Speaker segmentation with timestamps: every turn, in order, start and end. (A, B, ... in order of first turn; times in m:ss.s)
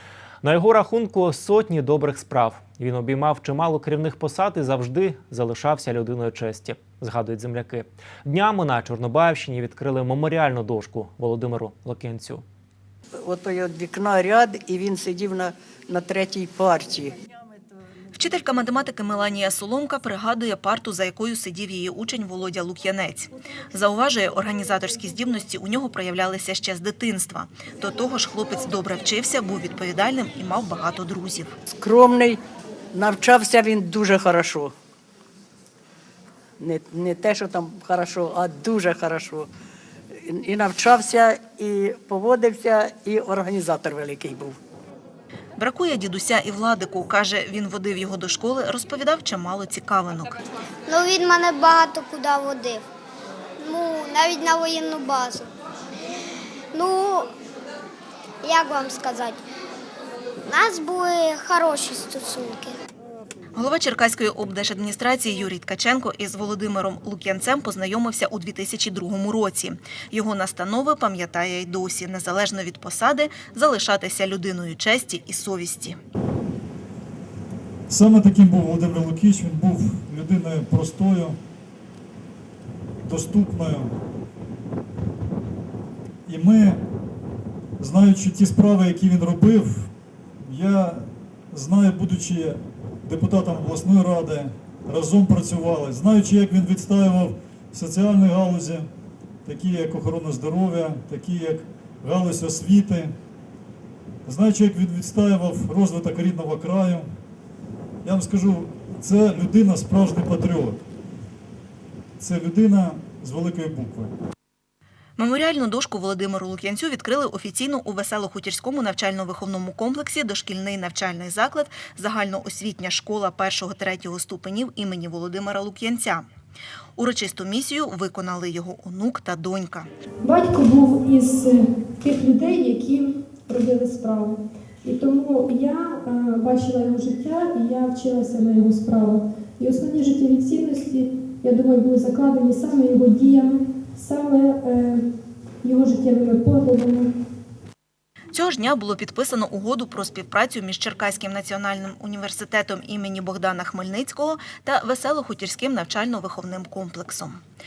0:00.4-0:12.4 A
0:13.2-0:17.6 B
0:18.1-0:31.5 C
0:31.7-0:32.4 B
0:32.9-0:34.7 B
0:36.6-0:39.5 B
0:40.2-0:44.6 B
0:45.6-0:50.4 C
0:50.9-0:52.8 D
0:53.6-0:55.5 D
0:56.7-0:57.3 D
0:58.4-0:59.4 D
1:00.4-1:02.8 D
1:03.5-1:16.0 C
1:17.9-1:21.4 E
1:23.0-1:23.9 E
1:26.3-1:26.8 E
1:27.8-1:29.9 E
1:30.4-1:38.9 E
1:39.4-1:43.1 E
1:44.2-1:47.0 E
1:48.0-1:50.8 E
1:52.2-1:54.1 E
1:55.2-2:06.3 C
2:07.0-2:09.9 C
2:10.2-2:25.0 F
2:25.6-2:27.1 F
2:28.3-2:37.4 C